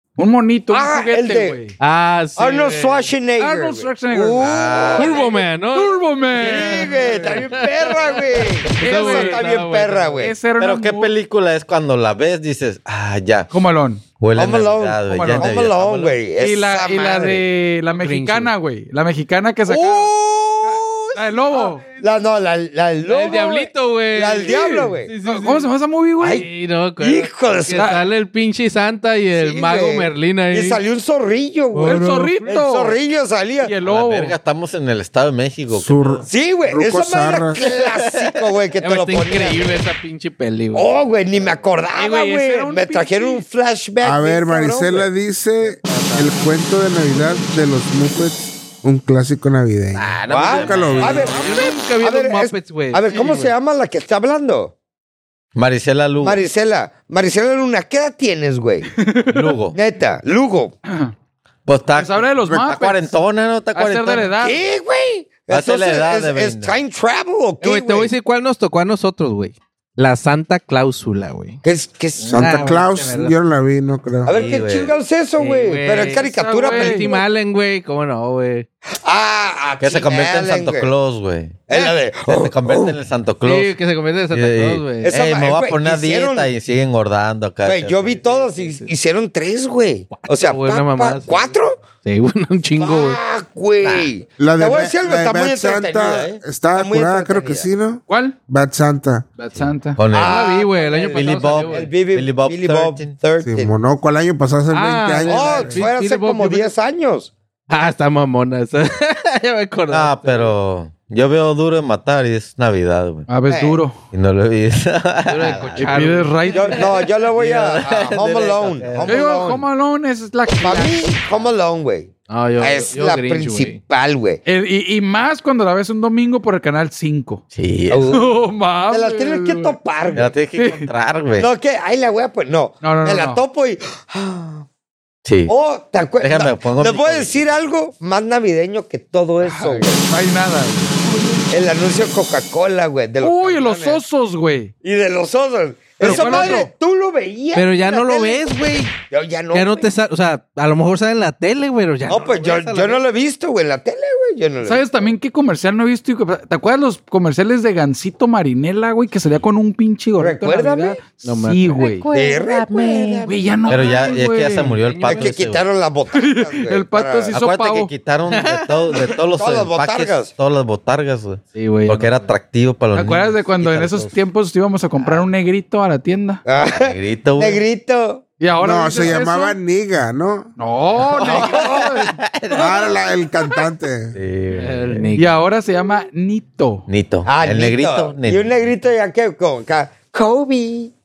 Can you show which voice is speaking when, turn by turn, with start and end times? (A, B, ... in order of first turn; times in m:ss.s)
0:00.2-0:01.8 A
0:00.7-0:01.6 B
0:01.8-0:03.1 C
0:02.4-0:05.2 B
0:03.4-0:07.4 A
0:04.4-0:05.2 D
0:04.9-0:10.3 C
0:06.3-0:10.4 B
0:08.8-0:09.4 A
0:10.2-0:11.1 A
0:10.6-0:13.5 D
0:13.5-0:14.0 A
0:14.2-0:16.2 D
0:14.3-0:17.4 B
0:15.1-0:15.5 A
0:16.4-0:20.1 A
0:17.9-0:18.5 C
0:19.7-0:21.2 B
0:20.6-0:21.9 A
0:21.9-0:25.1 B
0:23.0-0:25.7 C
0:24.4-0:26.4 A
0:26.2-0:26.4 B
0:26.3-0:30.8 C
0:27.0-0:28.0 B
0:27.7-0:28.0 A
0:29.4-0:33.7 B
0:31.7-0:32.6 C
0:31.8-0:33.0 A
0:33.6-0:34.3 A
0:33.8-0:36.2 D
0:35.7-0:37.6 E
0:36.3-0:39.8 B
0:37.6-0:38.4 D
0:38.8-0:40.9 C
0:40.7-0:45.1 B
0:41.9-0:43.4 A
0:44.0-0:51.2 E
0:45.6-0:46.5 C
0:47.1-0:47.4 C
0:49.9-0:51.4 D
0:50.3-0:54.7 B
0:50.8-0:53.5 C
0:55.5-0:56.4 D
0:56.2-0:58.9 B
0:58.9-0:59.6 A
0:59.3-0:59.8 D
0:59.7-1:00.7 B
1:00.8-1:01.1 A
1:01.6-1:04.3 D
1:01.9-1:03.0 A
1:03.7-1:04.6 A
1:04.4-1:08.1 B
1:05.5-1:06.8 D
1:07.6-1:11.6 C
1:11.6-1:12.7 B
1:12.2-1:14.3 E
1:12.3-1:13.4 C
1:14.2-1:17.2 B
1:14.3-1:15.0 D
1:15.4-1:18.7 C
1:16.0-1:17.1 A
1:19.0-1:20.9 B
1:19.8-1:23.8 D
1:21.7-1:23.0 B
1:23.4-1:25.1 C
1:24.3-1:28.2 D
1:25.0-1:26.5 B
1:27.6-1:31.8 B
1:28.2-1:28.9 C
1:30.1-1:31.4 C
1:32.0-1:33.2 C
1:32.8-1:37.7 B
1:34.4-1:39.3 E
1:38.1-1:38.4 A
1:39.4-1:40.0 A
1:40.0-1:40.5 D
1:40.1-1:43.7 B
1:40.1-1:41.9 C
1:41.1-1:43.1 D
1:43.4-1:45.8 E
1:44.7-1:46.7 C
1:45.3-1:47.3 B
1:47.7-1:50.5 C
1:49.9-1:53.3 D
1:53.3-1:54.0 A
1:53.5-1:53.8 B
1:54.1-1:56.1 D
1:55.2-1:56.9 C
1:55.8-1:56.9 A
1:56.5-1:59.6 B
1:57.3-1:59.2 D
1:59.0-2:01.1 A
2:00.6-2:04.4 B
2:02.3-2:03.8 C
2:04.4-2:07.4 A
2:07.5-2:08.1 D
2:07.9-2:08.4 B
2:08.1-2:09.8 A
2:08.9-2:10.4 B
2:10.1-2:11.5 D
2:10.6-2:10.9 A
2:11.4-2:14.6 B
2:12.8-2:13.4 A
2:15.2-2:15.5 D
2:15.5-2:20.0 B
2:16.2-2:17.6 D
2:19.4-2:21.5 A
2:21.5-2:24.0 B
2:23.2-2:24.7 A
2:24.8-2:28.4 B
2:26.0-2:26.7 A
2:26.0-2:26.6 C
2:27.5-2:28.9 C
2:29.1-2:29.9 B
2:29.5-2:33.0 C
2:32.1-2:35.1 B
2:34.6-2:42.1 A
2:40.2-2:41.0 B
2:41.2-2:42.0 C
2:41.8-2:45.6 D
2:42.1-2:43.4 B
2:43.2-2:44.8 A
2:44.8-2:45.4 C
2:45.1-2:47.3 B
2:46.1-2:47.9 A
2:47.3-2:54.1 D
2:48.3-2:49.2 C
2:49.4-2:50.3 B
2:51.5-2:52.3 C
2:52.9-2:56.4 A
2:56.4-2:58.2 B
2:56.8-2:57.6 D
2:58.4-2:59.6 A
2:58.6-3:00.5 E
3:00.6-3:02.9 A
3:01.2-3:02.9 D
3:01.2-3:02.0 B
3:02.5-3:04.2 E
3:04.1-3:05.1 D
3:04.5-3:05.4 C
3:05.2-3:06.8 A
3:06.9-3:08.5 D
3:07.2-3:10.9 B